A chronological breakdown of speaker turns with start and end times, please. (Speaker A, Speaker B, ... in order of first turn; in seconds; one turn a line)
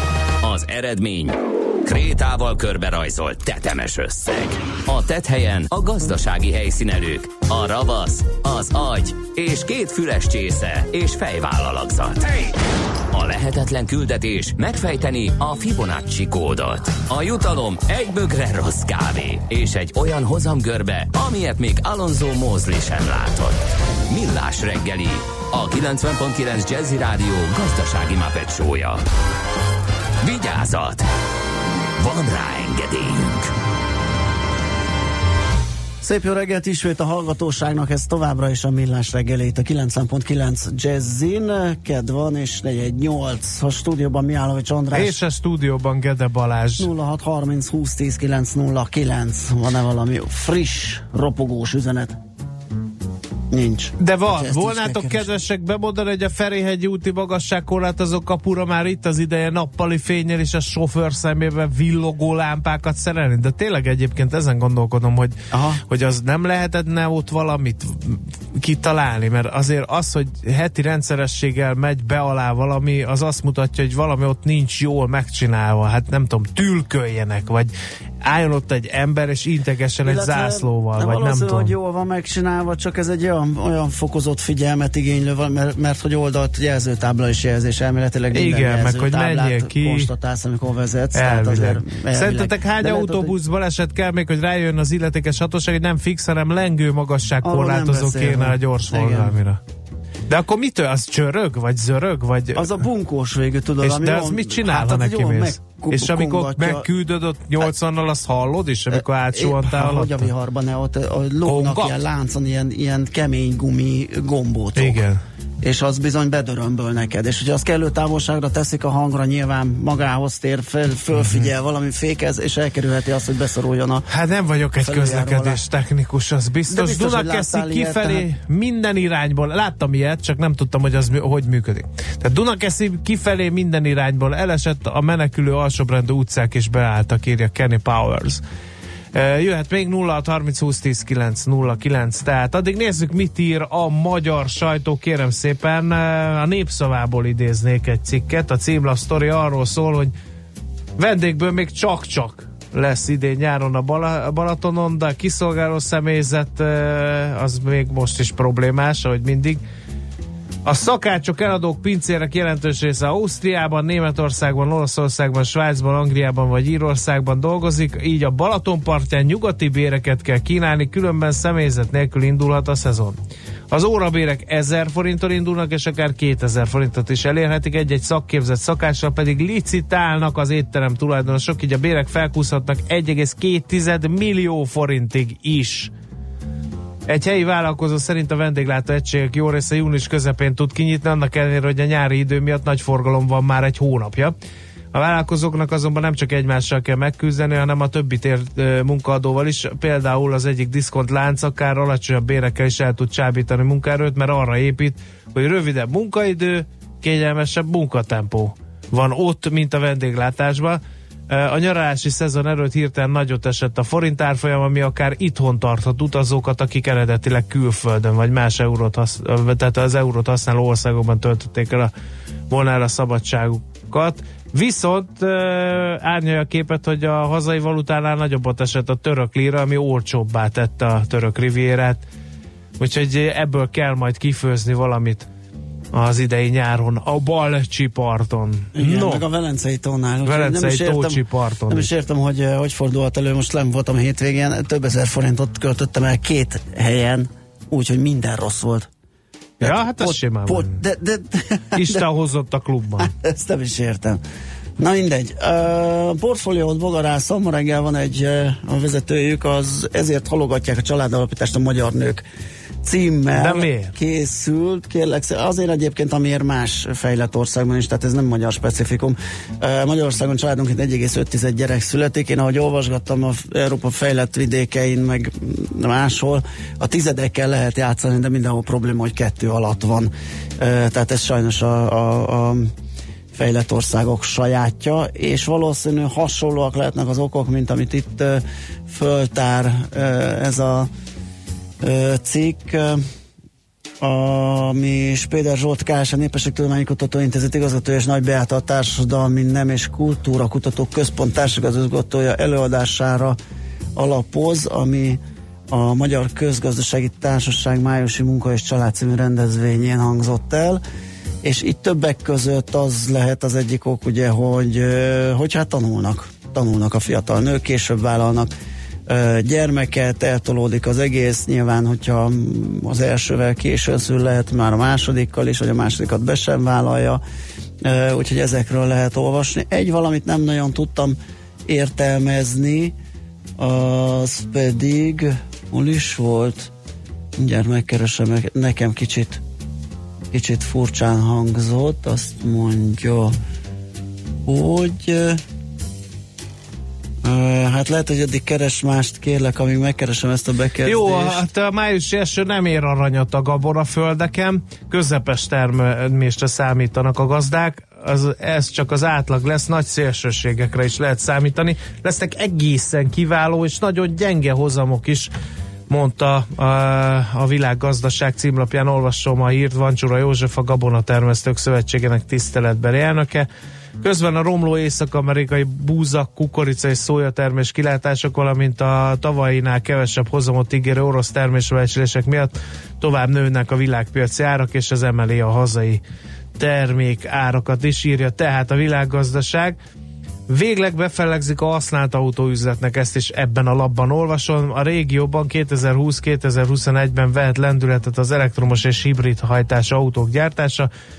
Speaker A: 0.4-12.5
Speaker A: 13.1-29.0
Speaker A: 30.2-31.1
Speaker A: 32.0-33.5
Speaker B: 36.0-45.2
Speaker C: 44.9-46.9
Speaker B: 46.8-52.2
Speaker B: 53.5-55.3
Speaker C: 54.0-65.4
Speaker B: 65.5-65.8
Speaker C: 65.9-77.7
Speaker C: 78.2-81.7
Speaker B: 80.0-93.3
Speaker C: 88.3-90.1
Speaker C: 91.1-99.6
Speaker B: 97.4-99.4
Speaker C: 100.3-102.7
Speaker B: 102.5-106.9
Speaker C: 103.8-110.3
Speaker B: 108.9-115.0
Speaker C: 111.5-112.0
Speaker C: 114.8-115.2
Speaker B: 115.6-124.0
Speaker C: 124.1-138.4
Speaker B: 124.8-125.6
Speaker B: 126.7-128.3
Speaker C: 139.1-150.1
Speaker C: 151.0-159.6
Speaker C: 160.7-173.2
Speaker C: 173.7-185.9
Speaker C: 187.1-194.3
Speaker C: 194.9-221.9
Speaker C: 222.5-232.0
Speaker C: 232.8-235.3
Speaker C: 235.9-239.2
Speaker B: 238.8-248.9
Speaker C: 240.3-241.9
Speaker C: 249.6-250.8
Speaker B: 249.6-252.1
Speaker C: 251.8-253.1
Speaker B: 253.0-254.2
Speaker B: 254.8-262.2
Speaker B: 262.8-282.7
Speaker C: 263.4-263.9
Speaker B: 283.3-290.9
Speaker B: 291.8-293.0
Speaker B: 294.0-303.4
Speaker B: 304.0-305.2
Speaker B: 305.7-310.8
Speaker B: 311.4-318.5
Speaker B: 319.1-327.2
Speaker B: 327.8-331.2
Speaker B: 331.7-333.0
Speaker B: 333.6-336.7
Speaker B: 337.4-339.4
Speaker B: 340.3-343.4
Speaker B: 344.5-345.4
Speaker B: 347.2-351.4
Speaker C: 350.9-365.3
Speaker C: 365.9-373.5
Speaker C: 374.0-386.0
Speaker C: 386.6-389.8
Speaker C: 390.5-400.9